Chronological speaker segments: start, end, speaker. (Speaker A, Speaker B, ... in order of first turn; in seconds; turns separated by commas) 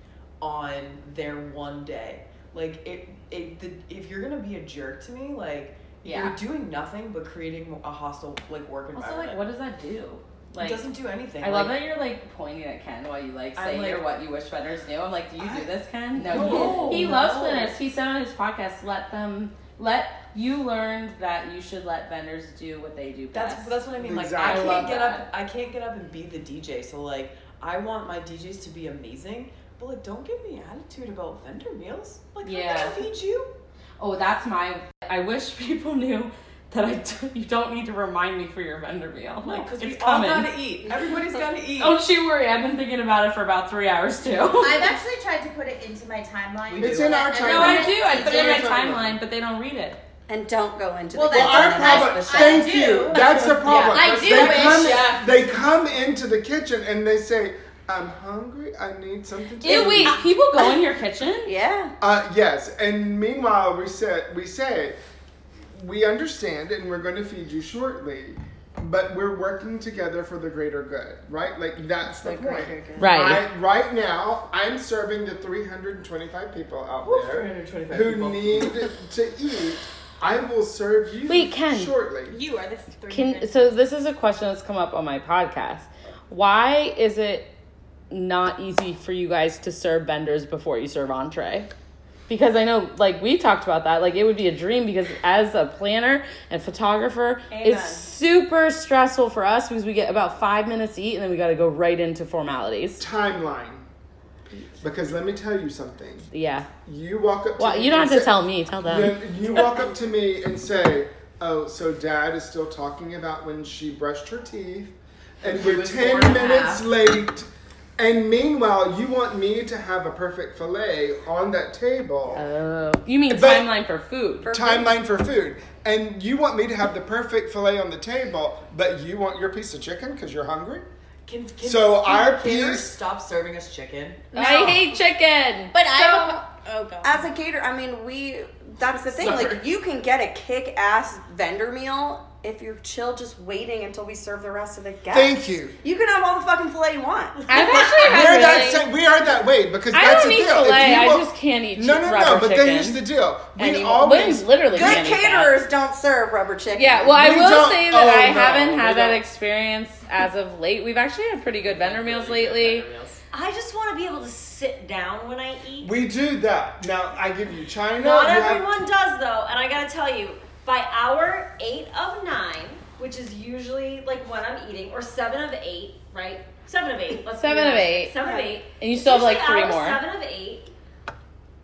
Speaker A: 0.4-9.4, Speaker B: 6.0-6.3, Speaker B: 8.9-10.8, Speaker A: 10.6-11.9, Speaker B: 11.4-23.8, Speaker A: 13.6-14.1, Speaker A: 15.4-17.8, Speaker A: 23.3-33.5, Speaker C: 24.0-25.0, Speaker B: 24.4-25.3, Speaker B: 32.4-33.0, Speaker B: 34.0-40.5, Speaker A: 39.4-42.0, Speaker B: 41.8-44.9, Speaker D: 44.6-48.6, Speaker A: 46.7-47.2, Speaker C: 46.8-49.1, Speaker B: 47.4-50.0, Speaker E: 50.3-52.7, Speaker D: 51.1-55.1, Speaker C: 51.3-60.2, Speaker A: 53.6-55.5, Speaker B: 59.6-61.5, Speaker E: 61.4-61.9, Speaker C: 62.0-65.0, Speaker C: 65.7-82.4, Speaker E: 72.3-73.1, Speaker A: 72.6-73.0, Speaker B: 73.0-73.5, Speaker A: 77.0-78.9, Speaker B: 81.3-81.9, Speaker D: 82.3-83.7, Speaker B: 83.1-87.5, Speaker B: 88.1-91.7, Speaker B: 92.3-103.0, Speaker C: 103.0-103.9, Speaker C: 104.8-106.3, Speaker B: 106.3-106.7, Speaker C: 106.8-122.4, Speaker B: 107.6-109.2, Speaker A: 115.4-116.9, Speaker B: 122.3-124.5, Speaker C: 123.3-123.7, Speaker E: 124.4-124.9, Speaker C: 124.5-130.9, Speaker A: 131.2-134.4, Speaker C: 131.6-132.9, Speaker B: 134.3-135.8, Speaker E: 134.4-134.9, Speaker D: 135.7-137.1, Speaker E: 135.9-136.4, Speaker E: 137.0-148.2, Speaker A: 139.1-139.6, Speaker C: 145.1-145.8, Speaker B: 147.5-148.8, Speaker A: 147.6-147.9, Speaker C: 147.9-155.1, Speaker B: 149.9-153.0, Speaker B: 153.6-155.5, Speaker E: 154.7-157.3, Speaker B: 156.8-162.9, Speaker C: 157.1-159.2, Speaker A: 161.6-163.2, Speaker F: 163.3-165.9, Speaker C: 165.8-168.8, Speaker F: 168.0-180.7, Speaker B: 177.3-178.1, Speaker E: 178.2-178.5, Speaker B: 178.8-180.0